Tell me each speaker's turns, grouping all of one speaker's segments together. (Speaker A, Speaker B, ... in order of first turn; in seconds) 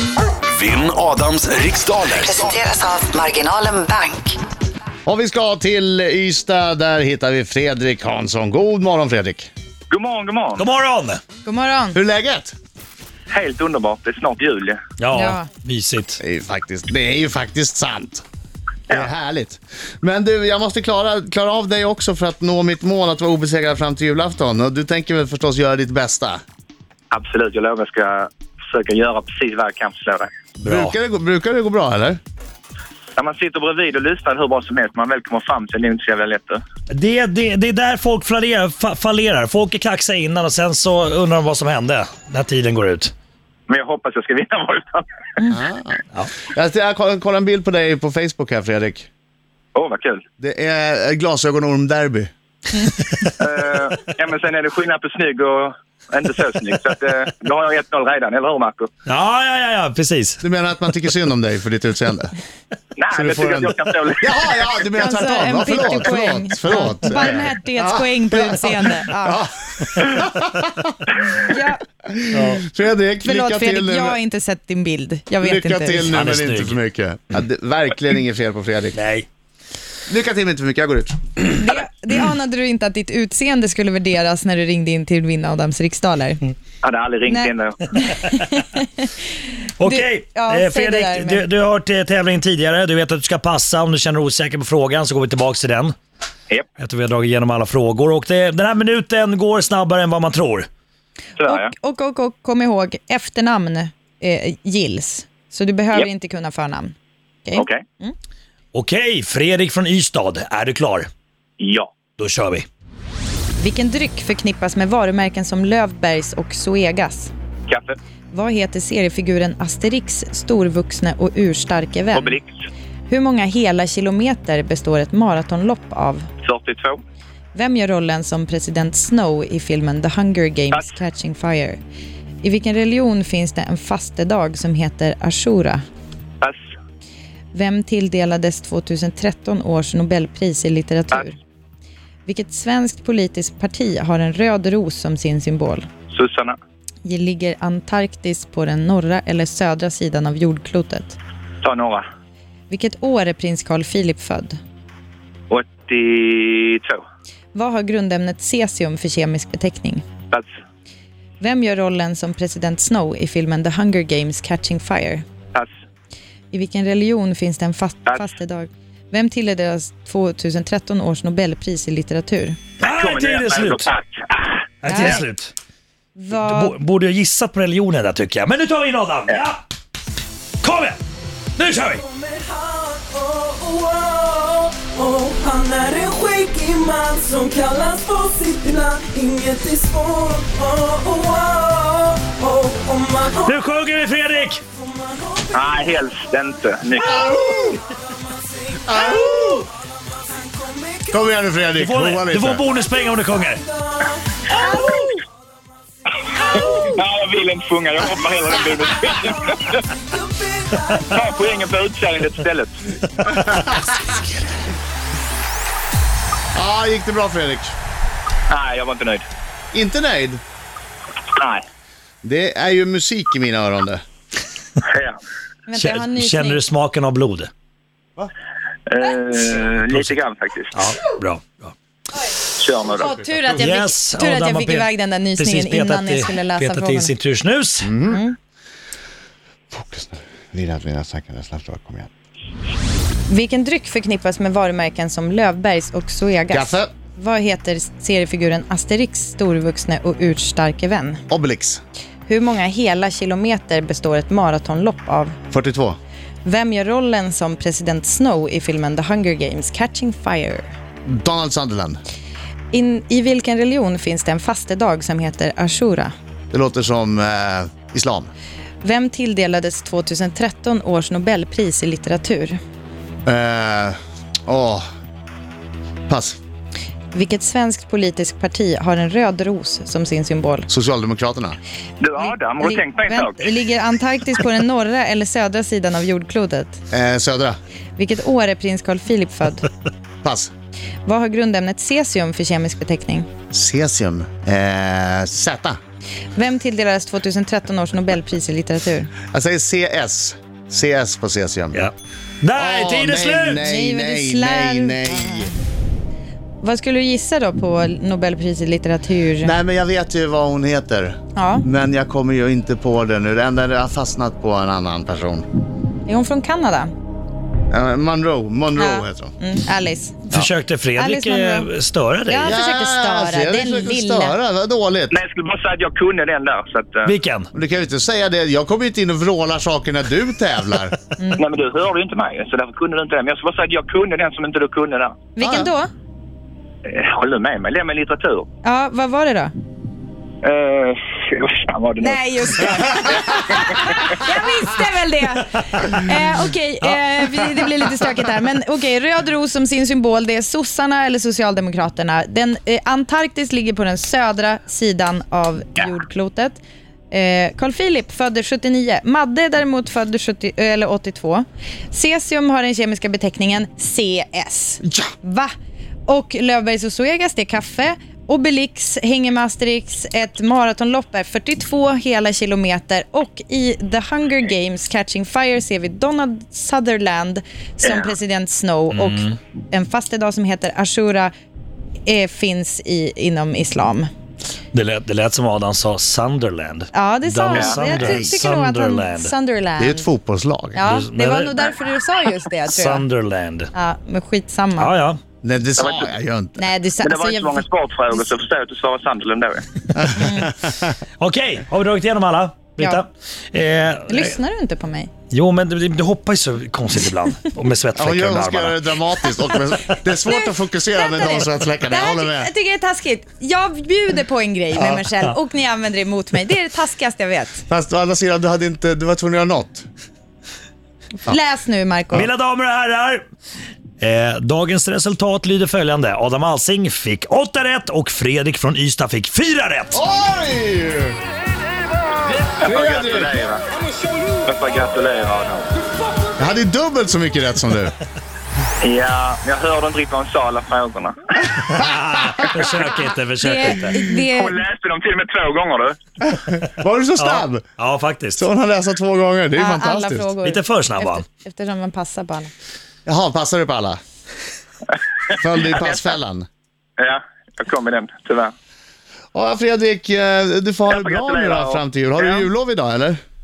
Speaker A: 0.5-2.5
Speaker B: 2.1-4.4
Speaker C: 5.0-9.5, 11.9-12.5, 16.2-18.2, 18.9-26.4, 30.6-32.2, 45.5-49.1, 50.4-52.3, 60.4-62.3, 63.1-71.1, 72.0-74.2, 75.4-79.0, 80.1-81.2, 196.9-197.8, 198.9-199.7, 201.1-202.7, 213.2-214.2, 216.5-217.7, 219.7-220.4, 222.2-224.0, 237.8-238.2, 239.7-242.1, 246.5-246.9, 251.3-251.8, 255.5-256.0, 261.1-262.0, 266.5-268.3, 273.2-274.8, 276.1-276.4, 280.7-281.6, 286.9-287.6, 290.2-290.5, 293.5-295.8, 299.3-301.8, 302.5-305.5, 309.4-315.4, 317.7-319.3, 322.4-325.2, 327.5-330.9, 335.4-335.7, 389.8-390.8, 395.4-396.6, 399.9-400.9, 407.9-412.5, 417.7-419.9, 429.9-431.2, 432.6-433.3, 436.4-437.9, 446.2-447.7, 448.4-450.3, 453.1-454.0, 455.3-456.5, 459.3-463.2
Speaker D: 9.9-10.7, 13.3-14.8, 27.1-30.3, 33.2-36.6, 43.7-45.0, 49.7-50.2, 53.4-58.9, 63.0-64.4, 86.8-87.9, 101.4-101.7, 107.5-107.8, 111.6-111.9, 117.7-118.0, 122.1-122.5, 126.4-127.0, 130.7-131.0, 146.1-146.6, 151.6-152.0, 155.5-157.0, 172.8-174.6, 195.5-197.2, 206.5-209.8, 211.1-212.8, 218.5-219.3, 221.3-221.6, 224.8-225.2, 228.9-230.9, 232.6-233.1, 282.0-283.5, 325.1-327.1, 331.4-335.1, 336.9-338.5, 340.4-342.2, 343.0-344.0, 377.8-378.1, 387.5-387.9, 395.8-396.1, 397.0-399.6, 432.6-433.6, 434.4-435.7, 438.8-441.4, 444.3-446.0, 455.3-456.1, 457.0-458.5, 460.9-462.5
Speaker E: 10.6-11.2, 15.0-16.2, 30.6-30.9, 36.9-43.1, 59.1-60.4, 72.3-72.6, 76.1-76.8, 78.9-79.3, 89.8-95.9, 96.8-100.7, 108.7-111.1, 112.2-112.7, 172.8-173.9, 174.8-175.5, 176.3-179.6, 180.6-181.0, 181.6-182.0, 193.4-194.6, 201.8-203.6, 225.7-227.5, 229.9-230.2, 230.7-231.7, 233.5-237.9, 301.7-303.6, 320.3-322.5, 327.0-327.5, 346.8-347.7, 378.9-379.4, 384.7-389.3, 390.8-391.7, 392.6-393.7, 394.8-395.2, 401.2-404.3, 405.3-408.8, 422.1-423.2, 424.0-430.0, 441.6-444.0, 447.2-448.4, 450.4-451.2
Speaker F: 11.4-12.0, 15.1-15.5, 65.0-69.4, 71.2-71.8, 73.2-76.1, 81.5-86.5, 87.3-88.9, 89.8-91.4, 101.4-108.1, 113.6-117.3, 118.3-122.3, 123.1-126.2, 127.5-131.8, 132.4-135.8, 137.5-141.4, 142.2-145.8, 147.0-151.2, 152.7-154.6, 157.5-160.0, 161.4-165.2, 166.5-172.6, 174.8-175.2, 176.2-176.8, 225.7-226.6, 233.0-237.1, 238.1-238.3, 243.3-251.2, 252.2-255.4, 256.4-260.7, 262.7-266.1, 268.8-272.6, 277.1-280.7, 282.2-286.8, 288.0-289.7, 291.1-293.3, 296.4-299.1, 303.6-305.5, 306.6-309.5, 311.3-311.6, 316.1-316.9, 318.8-320.4, 321.0-321.7, 322.3-324.4, 335.4-335.9, 338.6-339.5, 342.0-356.6, 357.1-365.5, 366.1-381.3, 382.1-384.1, 386.9-390.1, 390.8-393.0, 393.7-394.9, 396.6-398.2, 400.1-400.4, 404.1-405.1, 410.2-417.6, 421.2-422.3, 443.4-444.6, 449.5-452.5
Speaker G: 182.2-193.2, 195.2-196.0, 200.6-200.9, 203.8-205.1